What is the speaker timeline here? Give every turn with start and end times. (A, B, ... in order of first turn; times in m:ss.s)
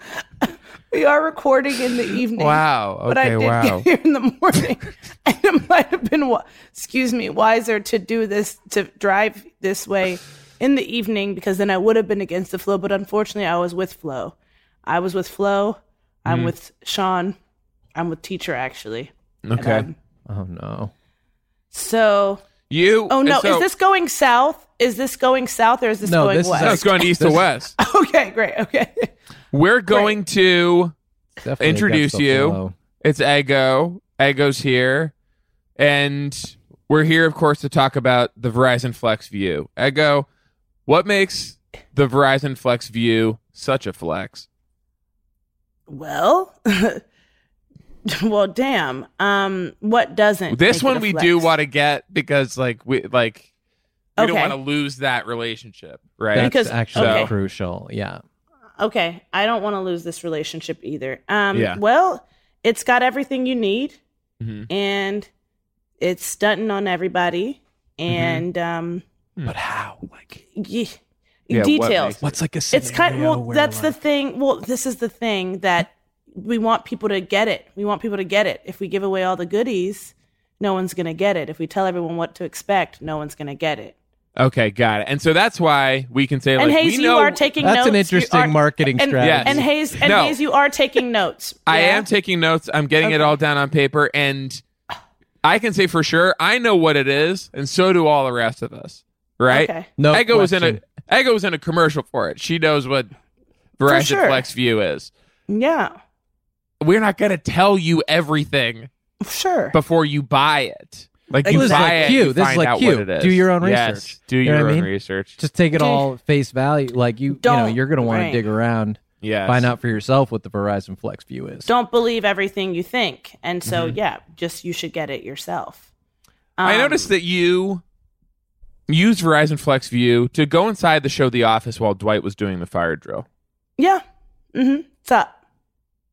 0:00.4-0:14.4 A
0:02.4-0:03.9 B
0:14.9-0:17.4 A
0:16.3-0:16.5 B
0:18.0-0:20.0 A
0:19.4-0:19.9 B
0:20.3-0:20.9 C
0:21.7-0:22.4 A
0:22.7-0:23.6 B
0:23.1-0:26.9 A
0:26.0-0:27.5 C
0:26.6-0:27.7 B
0:27.8-0:29.1 A
0:29.5-0:30.9 B
0:29.9-0:30.2 A
0:31.4-0:32.8 C
0:31.6-0:35.1 B
0:35.8-0:40.3 B
0:40.9-0:44.5 B
0:45.9-0:47.0 A
0:48.1-0:51.5 A
0:50.5-0:53.5 B
0:54.2-0:54.6 A
0:54.2-0:57.3 B
0:56.3-0:58.2 C
0:56.4-0:57.3 A
0:58.8-1:04.0 A
1:01.5-1:01.8 B
1:04.4-1:04.7 B
1:04.7-1:05.3 A
1:06.0-1:09.0 A
1:08.1-1:08.4 B
1:09.4-1:10.4 C
1:10.5-1:11.0 A
1:11.5-1:12.2 A
1:11.5-1:12.2 B
1:12.2-1:14.0 C
1:12.7-1:24.0 A
1:24.4-1:27.4 B
1:26.6-1:32.1 A
1:27.6-1:29.7 C
1:29.2-1:30.4 B
1:31.7-1:34.6 B
1:33.0-1:33.4 A
1:35.4-1:43.1 B
1:39.5-1:39.9 A
1:40.0-1:40.8 C
1:43.8-1:45.1 B
1:43.8-1:44.4 A
1:45.5-1:46.0 A
1:46.8-1:48.9 B
1:49.2-1:49.8 A
1:49.7-1:55.4 B
1:51.4-1:52.2 A
1:51.5-2:01.7 C
1:55.8-1:56.1 A
1:57.4-1:58.4 A
1:59.2-1:59.7 B
2:01.6-2:05.8 A
2:03.6-2:04.0 B
2:06.6-2:07.1 A
2:06.6-2:07.8 B
2:08.9-2:13.2 B
2:13.8-2:14.0 A
2:14.5-2:15.3 A